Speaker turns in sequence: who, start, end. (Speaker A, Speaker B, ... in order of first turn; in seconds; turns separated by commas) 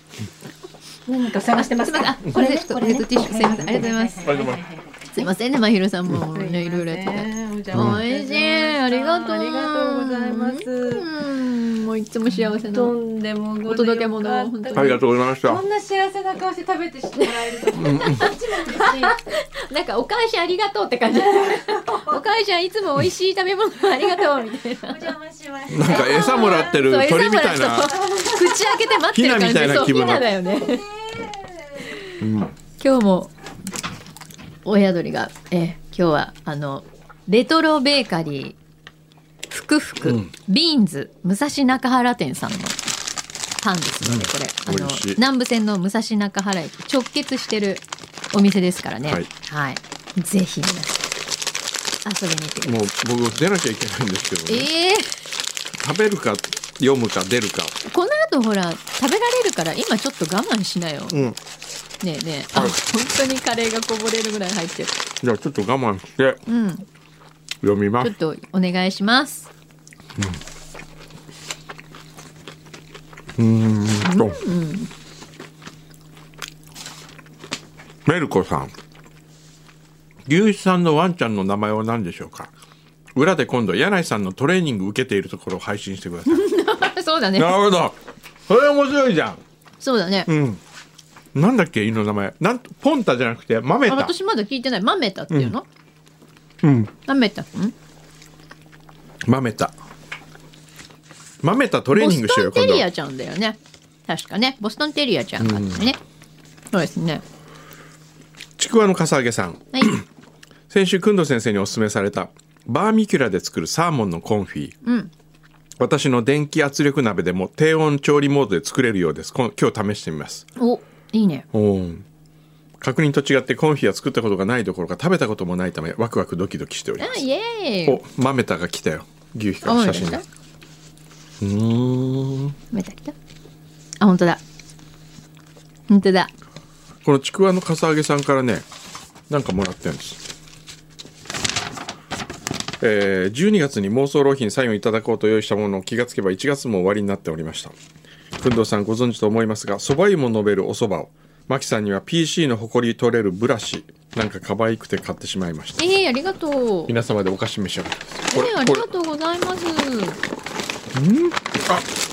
Speaker A: 1.1-5.2, Speaker B: 1.5-4.5, Speaker C: 4.2-4.6, Speaker B: 5.1-12.9, Speaker A: 6.1-11.1, Speaker C: 7.7-8.0, Speaker A: 12.3-19.2, Speaker B: 13.6-15.0, Speaker C: 14.7-15.6, Speaker C: 17.7-18.3, Speaker B: 17.8-25.1, Speaker A: 21.4-22.3, Speaker A: 24.0-26.8, Speaker C: 25.7-27.9, Speaker B: 25.8-30.8, Speaker A: 27.9-28.7, Speaker C: 29.1-30.3, Speaker A: 29.9-31.8, Speaker C: 32.2-32.5, Speaker B: 32.8-33.3, Speaker B: 34.6-38.5, Speaker B: 39.5-42.8, Speaker C: 40.0-40.3, Speaker B: 43.6-51.0, Speaker C: 44.0-45.2, Speaker B: 52.0-52.7, Speaker C: 52.6-54.7, Speaker B: 54.5-55.1, Speaker C: 55.8-57.7, Speaker B: 57.8-61.2, Speaker C: 61.1-61.4, Speaker B: 62.0-65.0, Speaker C: 65.2-66.4, Speaker B: 66.5-66.8, Speaker C: 67.6-68.1, Speaker B: 68.0-69.5, Speaker C: 73.4-74.4, Speaker B: 74.0-74.9, Speaker C: 78.0-78.7, Speaker C: 80.2-82.5, Speaker C: 83.1-86.4, Speaker B: 86.3-87.6, Speaker C: 87.4-89.4, Speaker B: 89.8-90.3, Speaker C: 90.3-90.6, Speaker C: 91.3-94.1, Speaker B: 93.9-95.7, Speaker C: 96.6-96.9, Speaker B: 97.0-97.7, Speaker C: 99.2-99.7, Speaker C: 101.4-102.9, Speaker B: 101.9-106.0, Speaker C: 105.4-105.9, Speaker B: 106.7-107.2, Speaker C: 108.6-110.0, Speaker C: 110.7-114.8, Speaker B: 114.8-115.1, Speaker C: 115.8-120.5, Speaker B: 120.6-121.5, Speaker C: 121.5-122.0, Speaker C: 122.8-127.2, Speaker B: 127.0-128.0, Speaker C: 127.8-130.2, Speaker B: 129.6-130.2, Speaker C: 131.4-132.6, Speaker B: 132.7-133.1, Speaker B: 134.0-134.4, Speaker B: 135.9-136.3, Speaker C: 137.0-138.6, Speaker C: 139.3-140.2, Speaker C: 142.8-147.7, Speaker C: 148.4-155.8, Speaker B: 155.8-156.9, Speaker C: 156.9-158.9, Speaker B: 158.3-160.2, Speaker C: 160.9-161.9